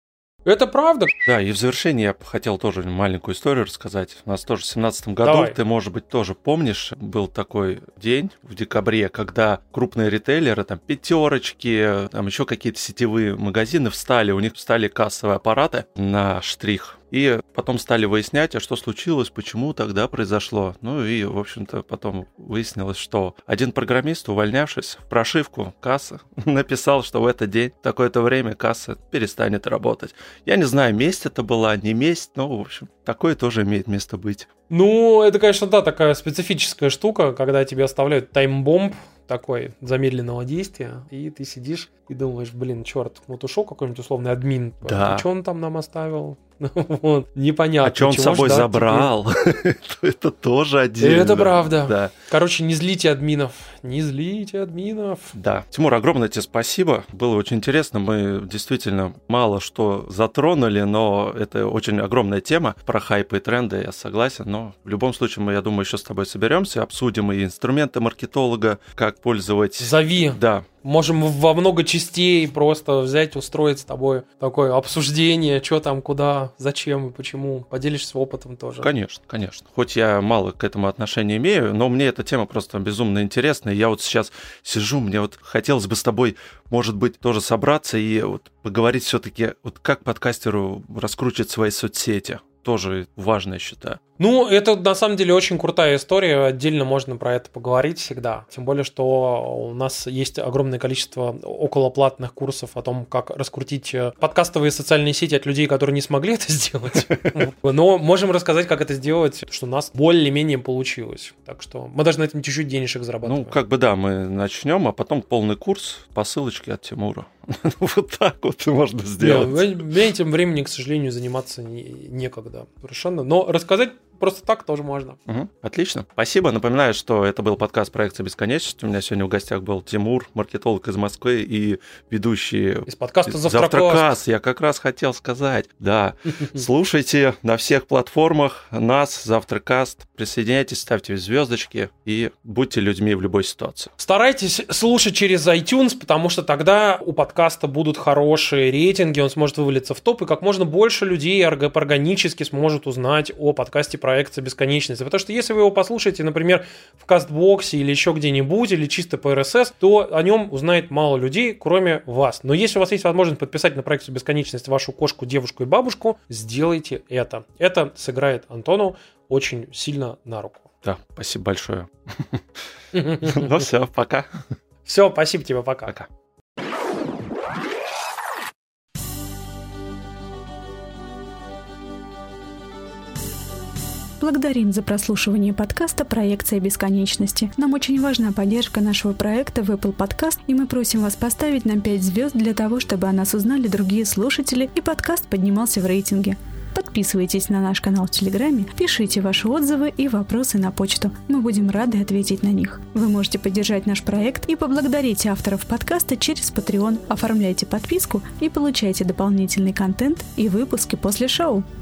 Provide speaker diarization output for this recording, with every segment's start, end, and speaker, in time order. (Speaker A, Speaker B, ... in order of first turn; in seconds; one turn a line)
Speaker A: 0.5-1.1
Speaker B: 1.2-34.5
Speaker A: 5.2-5.6
Speaker A: 34.7-49.1
Speaker B: 44.8-45.3
Speaker B: 47.8-52.1
Speaker A: 51.0-55.3
Speaker B: 55.3-70.7
Speaker A: 69.8-78.9
Speaker B: 78.8-94.0
Speaker A: 94.2-113.6
Speaker B: 113.2-119.8
Speaker A: 119.2-125.2
Speaker B: 125.3-143.9
Speaker A: 132.9-134.1
Speaker A: 136.3-136.6
Speaker A: 144.0-170.7
Speaker B: 170.8-172.6
Speaker A: 172.9-173.6
Speaker B: 173.2-174.3
Speaker A: 174.9-175.9
Speaker C: 184.2-211.7